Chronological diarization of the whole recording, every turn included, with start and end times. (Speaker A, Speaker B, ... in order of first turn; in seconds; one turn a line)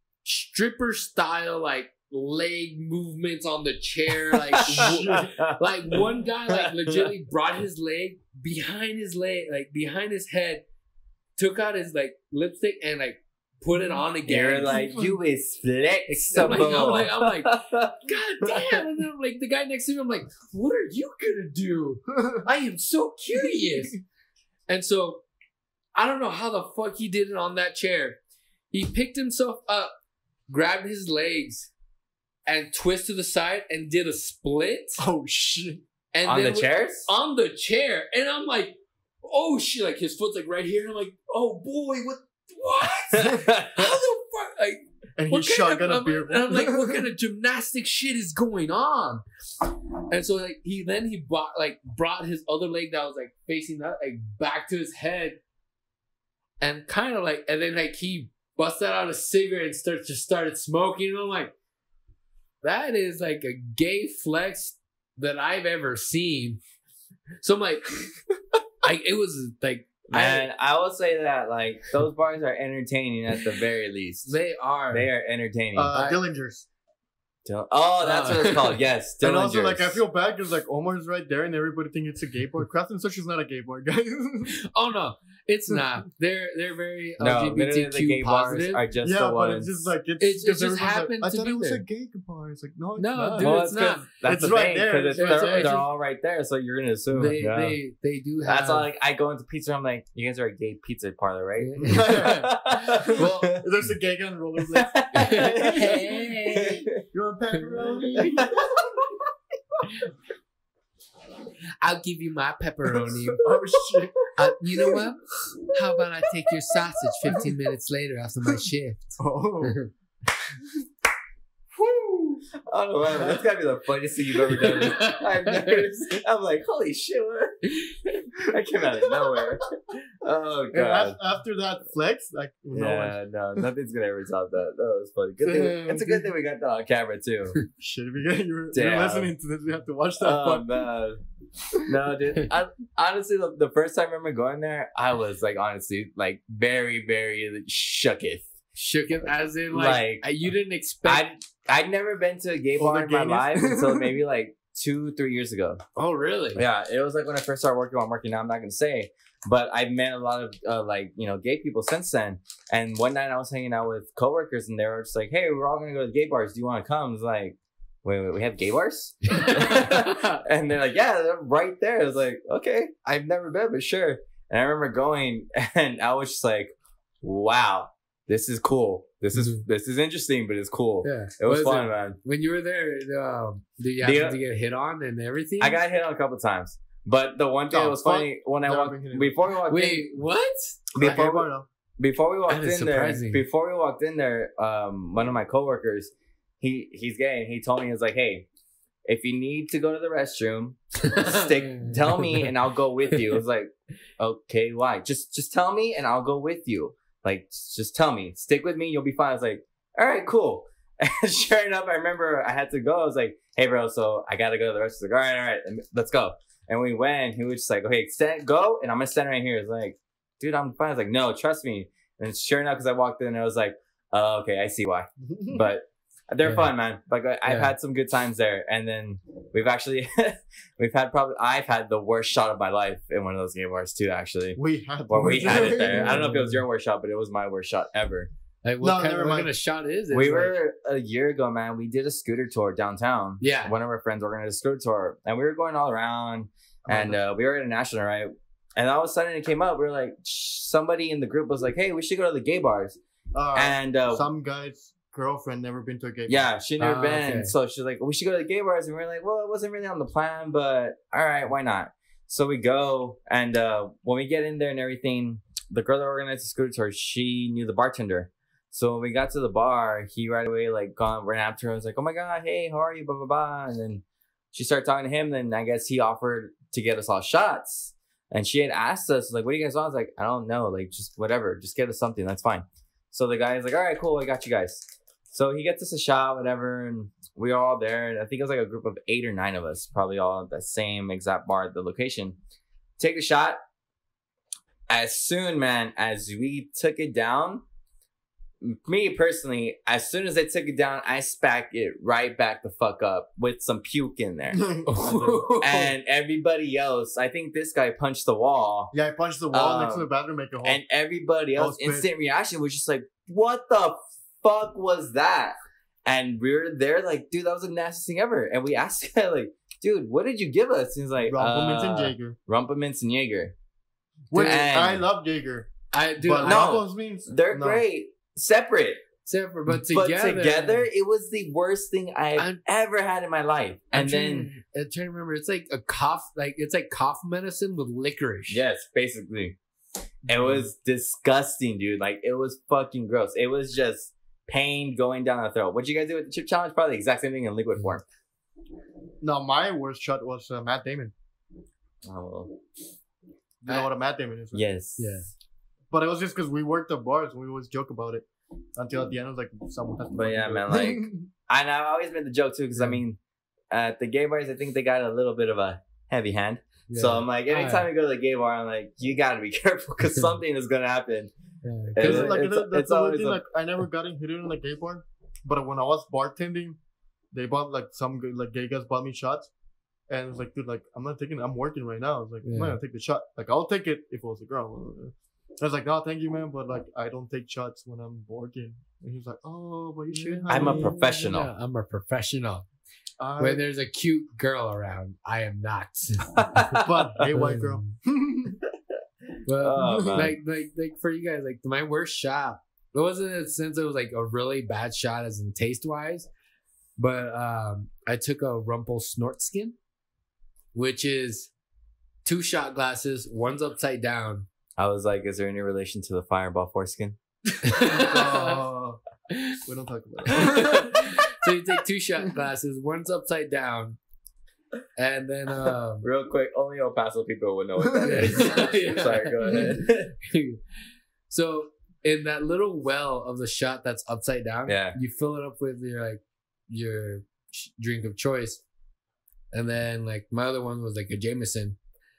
Speaker A: 0.2-10.6
Speaker B: 4.5-7.1
Speaker C: 4.7-5.3
Speaker A: 11.4-14.8
Speaker B: 14.3-18.8
Speaker C: 14.7-15.1
Speaker A: 16.1-24.0
Speaker A: 24.7-25.2
Speaker A: 25.9-28.2
Speaker A: 28.7-29.9
Speaker A: 30.5-31.7
Speaker A: 32.5-35.0
Speaker C: 35.0-35.8
Speaker A: 36.1-49.2
Speaker B: 36.2-37.1
Speaker B: 43.2-43.9
Speaker C: 45.2-47.0
Speaker A: 50.1-55.4
Speaker A: 56.6-61.5
Speaker A: 62.6-66.6
Speaker A: 67.4-68.0
Speaker A: 68.8-70.5
Speaker B: 70.1-74.4
Speaker A: 74.3-75.1
Speaker B: 74.9-75.9
Speaker C: 75.7-76.7
Speaker A: 75.9-76.2
Speaker B: 77.5-80.0
Speaker A: 78.0-78.7
Speaker C: 79.2-84.5
Speaker A: 84.5-88.8
Speaker B: 87.2-89.9
Speaker C: 89.0-93.7
Speaker A: 90.2-91.8
Speaker A: 93.0-94.1
Speaker B: 93.4-97.8
Speaker C: 94.2-95.8
Speaker A: 95.2-95.8
Speaker A: 97.1-98.9
Speaker B: 98.4-103.7
Speaker A: 101.6-103.6
Speaker C: 101.8-106.1
Speaker B: 104.7-107.0
Speaker A: 105.2-106.8
Speaker C: 106.9-108.8
Speaker B: 108.2-108.8
Speaker A: 111.8-113.4
Speaker C: 113.4-114.3
Speaker A: 114.3-119.9
Speaker C: 119.2-119.8
Speaker B: 122.6-127.6
Speaker C: 123.1-123.4
Speaker A: 124.6-125.8
Speaker A: 127.8-128.2
Speaker B: 128.4-131.2
Speaker C: 130.7-133.7
Speaker B: 132.7-137.6
Speaker C: 135.4-136.3
Speaker C: 137.8-140.8
Speaker B: 138.7-139.3
Speaker B: 140.2-141.2
Speaker B: 141.8-148.4
Speaker A: 148.8-151.3
Speaker B: 149.7-150.3
Speaker B: 151.0-155.8
Speaker C: 152.8-154.2
Speaker A: 155.9-156.6
Speaker B: 156.6-182.2
Speaker A: 169.3-170.4
Speaker A: 179.3-179.6
Speaker A: 181.0-185.8
Speaker B: 184.0-184.4
Speaker B: 185.6-190.1
Speaker C: 187.7-189.4
Speaker A: 189.7-191.2
Speaker B: 190.9-198.4
Speaker C: 191.0-191.7
Speaker A: 192.5-193.4
Speaker B: 199.1-238.3
Speaker A: 201.0-202.5
Speaker C: 225.2-225.7
Speaker A: 227.4-227.7
Speaker C: 234.6-236.3
Speaker A: 235.6-236.6
Speaker A: 238.6-240.5
Speaker C: 238.8-239.5
Speaker B: 240.1-253.0
Speaker A: 243.4-243.7
Speaker C: 246.8-247.2
Speaker C: 253.3-256.5
Speaker B: 253.5-254.2
Speaker B: 256.3-292.4
Speaker A: 256.8-257.5
Speaker B: 293.0-293.6
Speaker B: 294.9-297.6
Speaker B: 298.6-308.9
Speaker C: 304.6-304.9
Speaker A: 304.9-305.9
Speaker C: 308.9-310.8
Speaker B: 309.5-310.1
Speaker B: 310.6-323.5
Speaker C: 311.6-312.1
Speaker C: 321.2-322.4
Speaker C: 324.3-327.8
Speaker A: 324.3-324.6
Speaker B: 324.4-325.0
Speaker A: 325.9-326.8
Speaker B: 326.4-329.0
Speaker A: 329.2-330.8
Speaker B: 329.9-334.5
Speaker A: 333.9-338.6
Speaker B: 338.5-339.6
Speaker C: 340.3-340.6
Speaker B: 340.3-348.0
Speaker C: 349.2-351.1
Speaker B: 352.0-352.6
Speaker C: 353.6-354.6
Speaker B: 354.5-355.2
Speaker A: 355.0-355.3
Speaker C: 355.9-361.3
Speaker B: 360.1-363.2
Speaker B: 363.7-371.3
Speaker A: 366.9-367.9
Speaker A: 371.6-372.4
Speaker B: 371.9-373.4
Speaker C: 372.0-376.8
Speaker C: 377.3-379.5
Speaker C: 380.1-391.0
Speaker A: 382.4-382.8
Speaker A: 390.1-392.6
Speaker B: 390.5-391.5
Speaker C: 393.2-393.6
Speaker A: 393.4-396.7
Speaker B: 396.4-397.4
Speaker C: 396.8-398.6
Speaker A: 397.3-397.9
Speaker A: 399.4-406.3
Speaker B: 399.5-400.4
Speaker C: 399.8-400.3
Speaker A: 407.0-409.8
Speaker A: 410.7-411.5
Speaker A: 412.2-414.5
Speaker B: 414.8-417.2
Speaker A: 417.6-418.6
Speaker C: 417.8-419.0
Speaker A: 419.3-419.6
Speaker C: 419.6-421.1
Speaker A: 420.3-424.0
Speaker A: 424.9-426.0
Speaker B: 426.0-430.1
Speaker A: 428.0-430.6
Speaker A: 431.3-438.6
Speaker B: 434.6-435.0
Speaker A: 439.5-441.8